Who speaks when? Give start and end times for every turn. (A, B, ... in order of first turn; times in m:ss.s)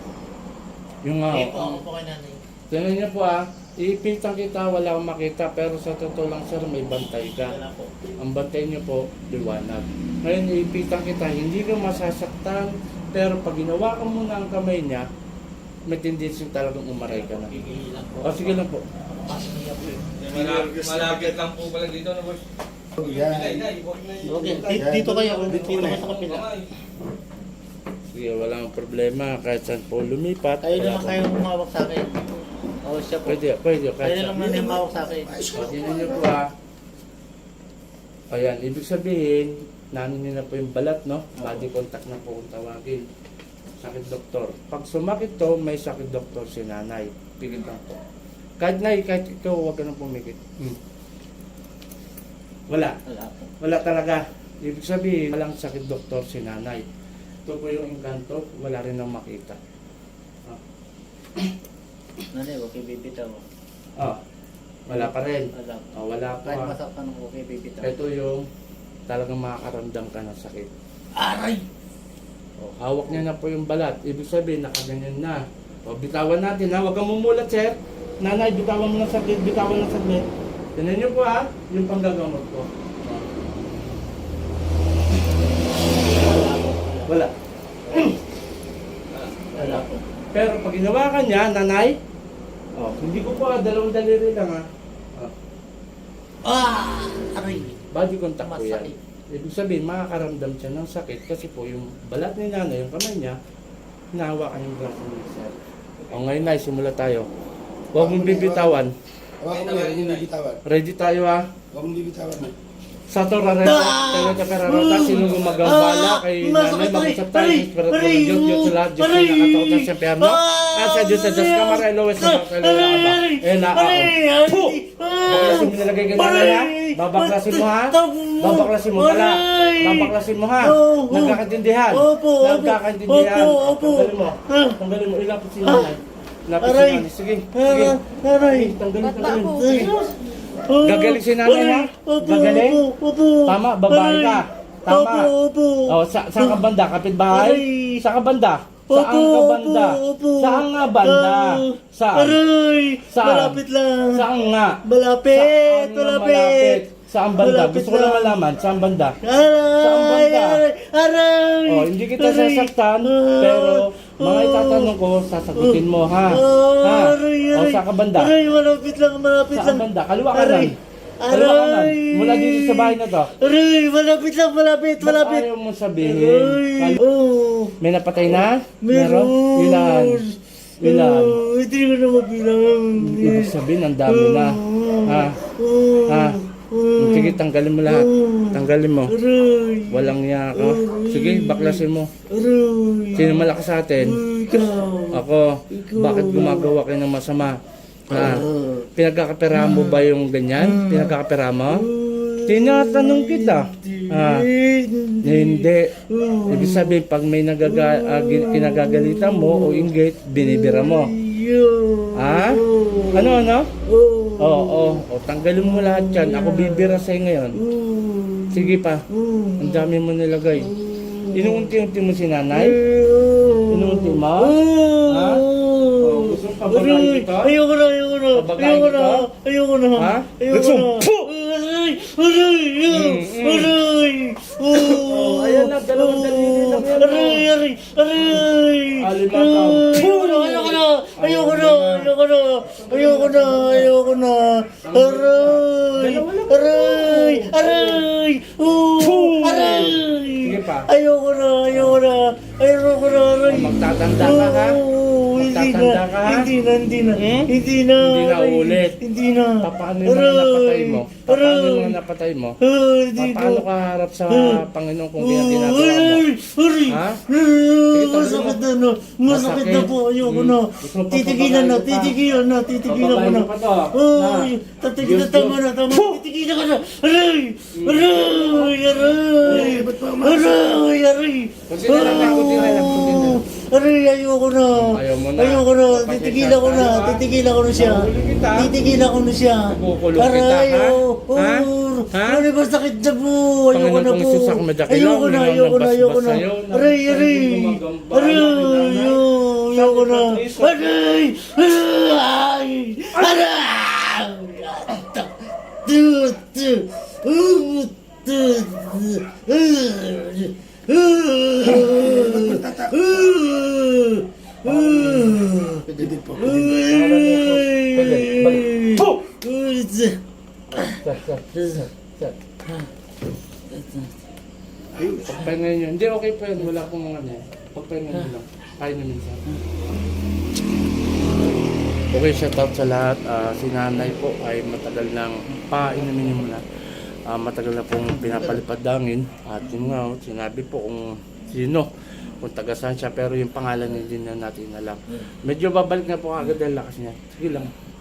0:01.0-0:01.8 A
0:01.3-0:02.4 B
0:02.7-0:07.6 A
0:07.4-0:07.9 B
0:08.2-0:15.0 A
0:15.9-0:17.5 A
0:17.1-0:20.0 B
0:18.2-0:18.8 A
0:20.1-0:22.4 C
0:20.2-0:21.2 D
0:21.1-0:21.4 B
0:23.0-0:26.1 D
0:23.0-0:24.8 C
0:24.2-0:26.5 B
0:24.7-0:25.3 A
0:25.5-0:26.7 C
0:28.1-0:31.2 A
0:30.6-0:33.4 B
0:33.2-0:34.4 A
0:34.0-0:35.5 B
0:34.3-0:36.3 D
0:35.5-0:36.5 A
0:38.3-0:43.0 A
0:43.8-0:48.0 A
0:48.6-0:50.8 A
0:52.7-0:53.0 A
0:53.1-0:53.5 B
0:53.6-0:56.8 A
0:57.4-0:59.6 A
1:02.3-1:03.4 B
1:04.8-1:06.8 A
1:04.9-1:05.9 B
1:06.4-1:07.9 B
1:07.8-1:08.4 A
1:09.1-1:10.7 A
1:11.2-1:11.6 B
1:12.6-1:23.2 A
1:26.0-1:27.1 B
1:27.0-1:27.3 A
1:27.8-1:28.1 B
1:27.9-1:28.2 A
1:29.1-1:29.4 C
1:29.5-1:32.0 A
1:29.6-1:30.0 B
1:32.7-1:34.6 A
1:36.4-1:37.8 B
1:37.9-1:43.4 A
1:38.4-1:38.9 B
1:44.1-1:45.6 A
1:46.1-1:47.3 A
1:47.9-1:48.8 D
1:47.9-1:48.9 A
1:49.4-1:50.6 D
1:49.5-1:50.3 C
1:50.6-1:51.5 A
1:51.7-1:52.5 D
1:53.1-2:20.2 A
1:53.6-2:14.8 B
1:55.0-1:55.7 C
2:15.6-2:15.9 B
2:16.6-2:26.7 B
2:20.8-2:22.8 A
2:23.5-2:25.3 A
2:25.9-2:32.4 A
2:27.3-2:28.0 B
2:28.9-2:34.3 B
2:33.1-2:33.6 A
2:34.1-2:34.8 A
2:34.8-2:36.8 B
2:35.3-2:39.2 A
2:37.4-2:38.4 B
2:39.2-2:44.9 B
2:39.8-2:40.6 A
2:41.7-2:48.3 A
2:45.5-2:55.5 B
2:49.5-2:50.7 A
2:51.3-2:53.3 A
2:55.0-2:57.0 A
2:56.0-2:57.7 B
2:57.8-3:00.2 A
2:58.3-3:16.7 B
3:00.8-3:01.4 A
3:02.9-3:05.4 A
3:06.1-3:06.4 A
3:07.0-3:09.1 A
3:09.9-3:12.1 A
3:13.1-3:14.2 A
3:15.1-3:21.9 A
3:18.1-3:18.9 B
3:19.5-3:27.0 B
3:22.4-3:24.5 A
3:25.2-3:31.1 A
3:27.6-3:40.0 B
3:32.2-3:33.7 A
3:34.4-3:37.6 A
3:38.5-3:39.0 A
3:39.6-3:40.7 A
3:40.5-3:41.7 B
3:41.3-3:42.8 A
3:42.5-4:22.0 B
3:43.7-3:44.6 A
3:45.1-3:45.4 A
3:46.0-3:47.6 A
3:48.3-3:49.3 A
3:50.0-3:51.3 A
3:52.9-3:53.8 A
3:54.7-3:57.5 A
3:59.0-4:02.1 A
4:02.6-4:03.9 A
4:04.8-4:08.0 A
4:09.0-4:10.9 A
4:11.7-4:12.0 A
4:13.4-4:14.8 A
4:15.4-4:16.5 A
4:17.2-4:19.0 A
4:19.6-4:22.6 A
4:22.6-4:23.6 B
4:23.2-4:26.2 A
4:24.3-4:24.6 B
4:25.2-5:20.2 B
4:26.9-4:27.2 A
4:27.9-4:28.6 A
4:29.3-4:32.2 A
4:32.9-4:36.2 A
4:37.7-4:38.8 A
4:39.4-4:39.8 A
4:39.4-4:40.8 D
4:41.7-4:43.4 A
4:44.7-4:48.7 A
4:49.7-4:52.4 A
4:53.7-5:01.0 A
5:11.6-5:13.3 D
5:14.6-5:15.4 A
5:15.9-5:16.8 D
5:16.8-5:19.3 A
5:20.7-5:22.3 A
5:20.7-5:21.9 B
5:23.7-5:24.1 B
5:24.9-5:25.4 D
5:25.2-5:29.4 A
5:32.1-5:36.6 A
5:37.3-5:47.7 A